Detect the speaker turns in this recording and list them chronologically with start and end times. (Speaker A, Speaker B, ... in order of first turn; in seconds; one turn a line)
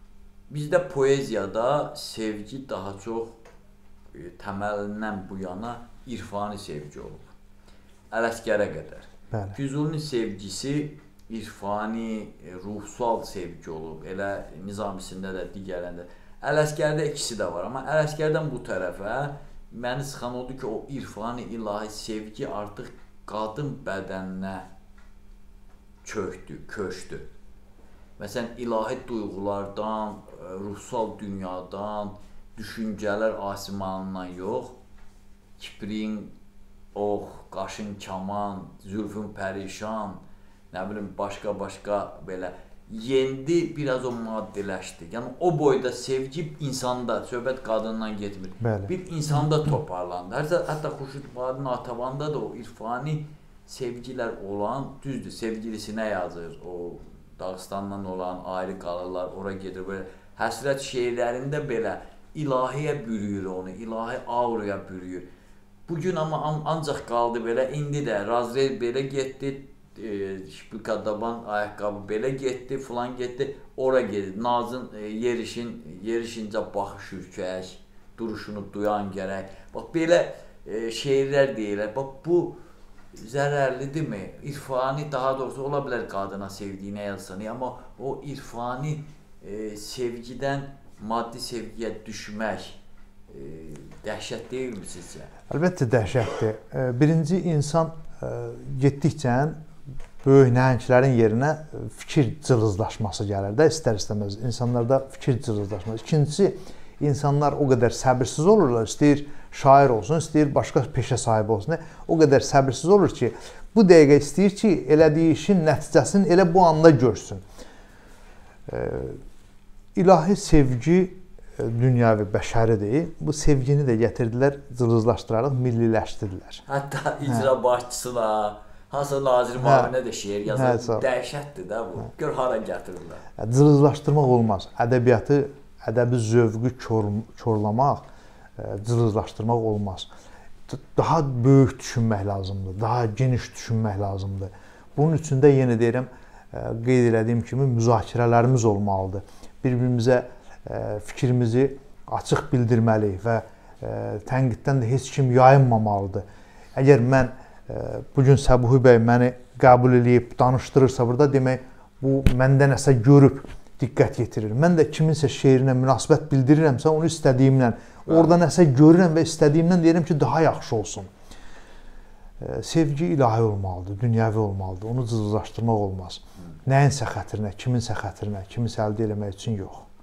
Speaker A: 0.5-3.4
Speaker A: 4.1-7.2
Speaker A: 8.1-24.7
Speaker B: 9.3-9.6
Speaker A: 26.0-27.2
Speaker A: 28.2-34.8
Speaker A: 35.6-36.3
Speaker A: 36.9-40.2
Speaker A: 40.7-65.3
Speaker B: 48.6-48.9
Speaker A: 65.9-82.6
Speaker A: 83.1-92.8
Speaker A: 93.3-95.3
Speaker B: 95.5-99.6
Speaker B: 100.2-117.4
Speaker B: 118.7-119.2
Speaker B: 119.9-126.6
Speaker A: 126.7-133.2
Speaker B: 129.6-129.9
Speaker B: 130.5-131.1
Speaker B: 133.4-138.1
Speaker B: 138.6-140.1
Speaker B: 140.7-156.2
Speaker B: 156.7-171.1
Speaker B: 172.4-179.9